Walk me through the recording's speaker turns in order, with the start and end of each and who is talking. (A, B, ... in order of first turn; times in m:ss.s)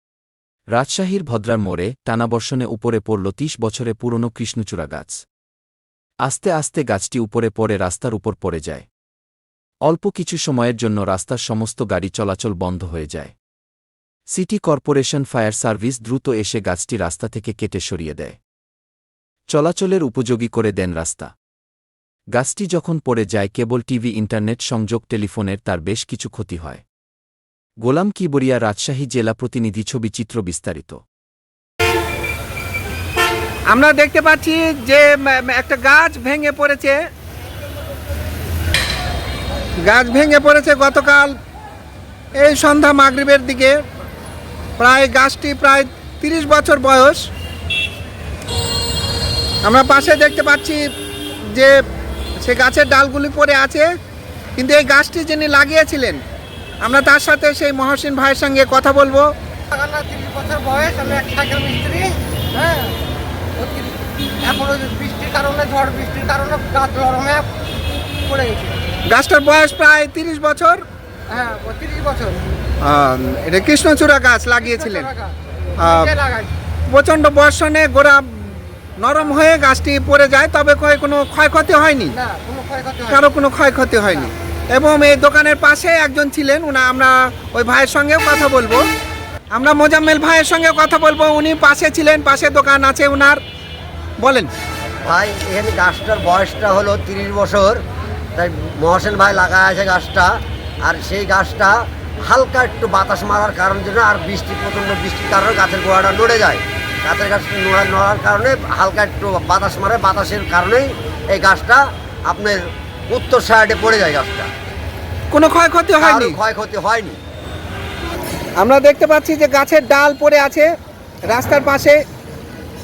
0:00.7-0:05.2 A
0:06.2-0:08.8 A
0:09.8-0:13.3 A
0:14.3-0:18.4 A
0:19.5-0:21.3 A
0:22.3-0:26.8 A
0:27.8-0:31.0 A
0:33.7-0:37.0 B
0:39.8-0:41.3 B
0:42.4-0:43.8 B
0:44.8-0:47.2 B
0:49.6-0:50.8 B
0:52.4-0:53.9 B
0:54.6-0:56.2 B
0:56.8-0:59.2 B
0:59.7-1:03.0 C
1:03.6-1:07.5 C
1:08.2-1:08.8 C
1:09.1-1:10.8 B
1:11.3-1:12.4 C
1:12.8-1:15.1 B
1:14.6-1:15.3 C
1:15.8-1:16.1 B
1:15.8-1:16.5 C
1:16.9-1:22.1 B
1:22.2-1:23.2 C
1:23.1-1:28.8 B
1:29.5-1:33.4 B
1:34.2-1:34.5 B
1:35.0-1:37.8 D
1:38.4-1:40.3 D
1:40.8-1:54.5 D
1:55.3-1:56.4 B
1:56.0-1:57.2 D
1:58.6-2:00.7 B
2:01.3-2:02.0 B